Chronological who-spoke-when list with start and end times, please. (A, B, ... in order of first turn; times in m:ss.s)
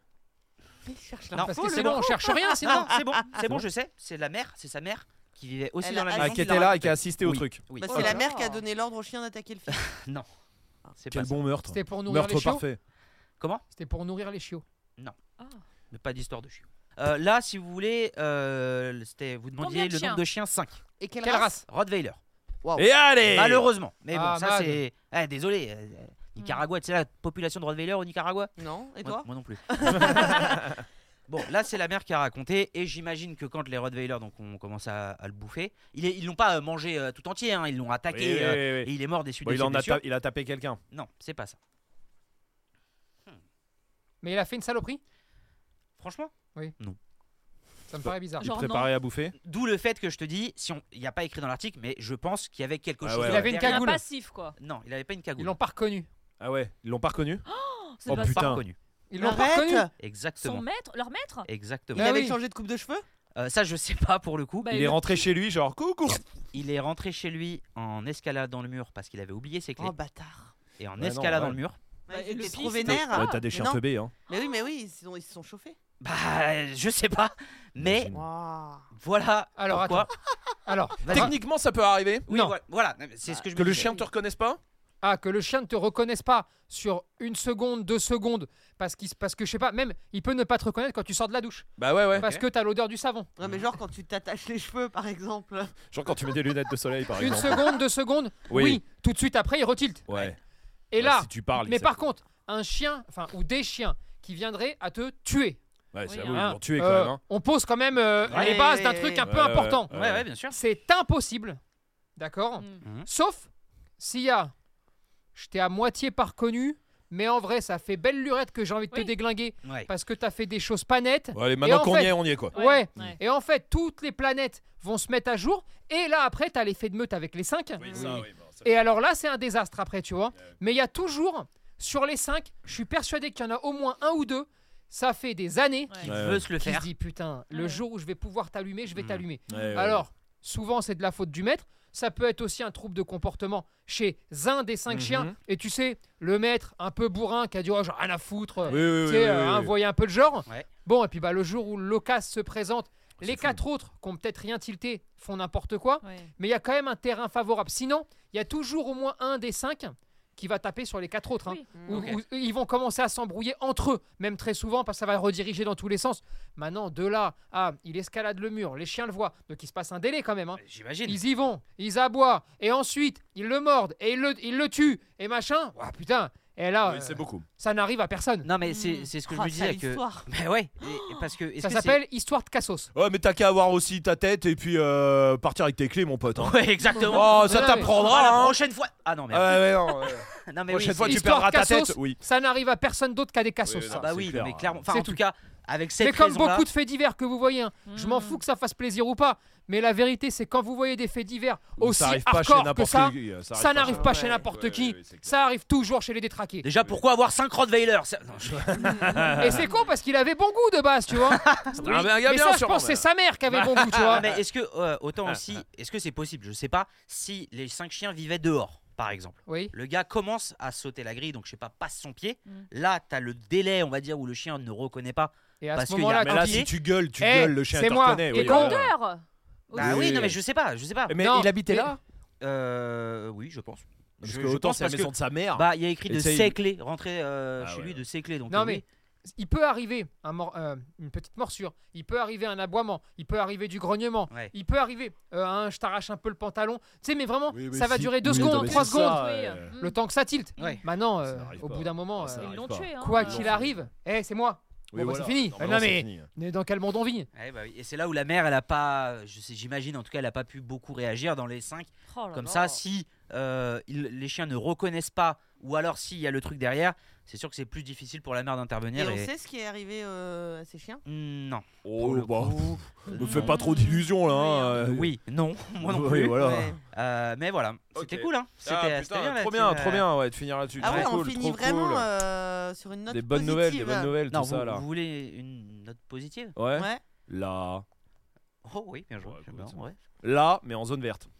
0:00.8-0:03.2 A
0:01.3-0:08.2 B
0:01.4-0:02.9 C
0:03.4-0:03.6 D
0:05.8-0:06.7 A
0:06.2-0:07.6 D
0:07.8-0:09.8 A
0:07.9-0:08.6 E
0:09.7-0:10.3 B
0:11.0-0:11.4 B
0:11.1-0:12.8 D
0:11.7-0:12.6 C
0:13.7-0:14.6 C
0:15.9-0:20.8 B
0:19.6-0:20.2 E
0:21.0-0:21.6 A
0:21.2-0:21.6 C
0:21.7-0:22.2 B
0:22.8-0:23.7 D
0:23.2-0:30.4 B
0:24.1-0:24.8 C
0:26.4-0:26.6 E
0:28.6-0:30.6 A
0:31.3-0:40.0 B
0:38.1-0:38.9 D
0:39.4-0:40.8 D
0:40.9-0:41.6 B
0:44.2-0:45.0 C
0:46.0-0:47.0 B
0:47.9-0:48.4 C
0:48.0-0:49.3 D
0:48.4-0:48.9 E
0:49.4-0:54.0 B
0:53.0-0:53.5 D
0:53.2-0:54.0 C
0:53.4-0:54.6 E
0:54.6-0:55.5 B
0:55.4-0:56.1 C
0:56.4-0:57.4 D
0:57.4-0:58.6 E
0:58.0-0:58.6 D
0:58.1-0:58.7 B
0:59.1-0:59.9 C
0:59.2-0:59.9 A
1:00.0-1:00.6 B
1:00.4-1:01.5 E
1:01.5-1:02.2 B
1:01.9-1:03.0 A
1:01.9-1:02.4 C
1:03.4-1:04.7 B
1:04.6-1:05.2 E
1:04.7-1:06.2 D
1:06.5-1:09.9 B
1:09.8-1:10.5 A
1:10.8-1:11.8 B
1:11.0-1:11.6 D
1:12.1-1:15.8 A
1:12.1-1:13.4 E
1:12.8-1:14.1 D
1:16.0-1:18.1 B
1:17.8-1:18.2 D
1:18.1-1:18.8 A
1:18.9-1:20.1 B
1:19.6-1:20.1 C
1:20.6-1:21.3 C
1:21.0-1:21.3 B
1:21.1-1:22.2 D
1:22.3-1:24.0 B
1:22.3-1:22.6 C
1:23.5-1:24.6 D
1:25.0-1:33.3 C
1:31.8-1:32.3 D
1:32.2-1:32.4 B
1:33.4-1:36.3 A
1:35.9-1:37.7 D
1:37.2-1:40.0 C
1:38.5-1:38.8 D
1:40.1-1:40.4 D
1:40.9-1:45.6 C
1:41.0-1:42.1 D
1:45.9-1:47.2 D
1:46.1-1:46.5 E
1:46.3-1:49.9 C
1:48.2-1:49.3 A
1:48.2-1:48.6 B
1:49.2-1:50.2 D
1:49.9-1:50.6 B
1:50.5-1:51.6 C
1:52.2-1:53.5 C
1:52.6-1:52.8 E
1:52.8-1:53.1 B
1:54.0-1:54.5 C
1:55.3-2:58.5 C
1:59.6-1:59.9 B
2:01.3-2:03.0 D
2:02.5-2:03.2 E
2:07.8-2:08.6 D
2:07.9-2:08.2 A
2:16.0-2:16.5 D
2:16.0-2:16.9 B
2:17.5-2:17.8 E
2:18.9-2:19.2 B
2:19.5-2:20.0 D
2:19.5-2:19.8 E
2:24.9-2:25.3 D
2:28.6-2:28.9 E
2:28.7-2:29.7 D
2:33.2-2:33.6 D
2:36.0-2:36.3 E
2:41.4-2:41.9 E
2:41.7-2:42.1 A
2:41.9-2:42.2 B
2:50.6-2:51.2 B
2:56.8-2:57.4 D
2:58.4-3:02.0 B
2:58.7-2:59.1 E
2:59.2-3:00.2 A
3:00.8-3:01.1 E
3:01.6-3:02.9 C
3:02.9-3:06.5 D
3:06.4-3:11.2 B
3:07.0-3:07.9 C
3:07.1-3:08.6 D
3:09.3-3:12.2 D
3:11.0-3:14.1 C
3:13.6-3:14.8 D
3:13.9-3:16.7 B
3:14.9-3:15.2 C
3:16.0-3:26.7 C
3:17.9-3:18.4 E
3:21.8-3:25.4 D
3:24.1-3:24.4 A
3:26.6-3:29.3 B
3:28.5-3:29.6 D
3:29.4-3:34.2 C
3:31.3-3:32.1 B
3:31.8-3:34.4 D
3:34.1-3:46.7 B
3:39.5-3:39.7 C
3:45.6-3:48.8 C
3:46.2-3:48.9 D
3:48.3-3:50.2 E
3:49.7-3:50.4 D
3:49.7-3:51.2 B
3:51.1-3:52.0 D
3:51.2-3:51.9 C
3:52.4-3:58.8 B
3:54.2-3:56.6 D
3:57.6-3:58.0 D
3:58.5-3:58.8 C
3:59.4-4:09.2 C
4:07.5-4:09.7 D
4:08.3-4:10.0 E
4:09.8-4:17.3 C
4:11.2-4:13.8 D
4:12.3-4:13.6 E
4:14.9-4:16.3 D
4:17.4-4:29.3 B
4:22.1-4:22.8 E
4:28.9-4:31.0 A
4:31.0-4:33.5 B
4:31.8-4:35.2 D
4:33.2-4:34.8 E
4:34.8-4:40.1 B
4:35.8-4:36.7 D
4:36.4-4:36.8 A
4:37.9-4:42.0 D
4:40.8-4:44.2 A
4:40.8-4:41.1 B
4:43.1-4:44.8 D
4:44.3-4:46.5 B
4:46.6-4:47.8 D
4:46.7-4:47.0 A
4:48.6-4:50.0 B
4:49.2-4:51.3 D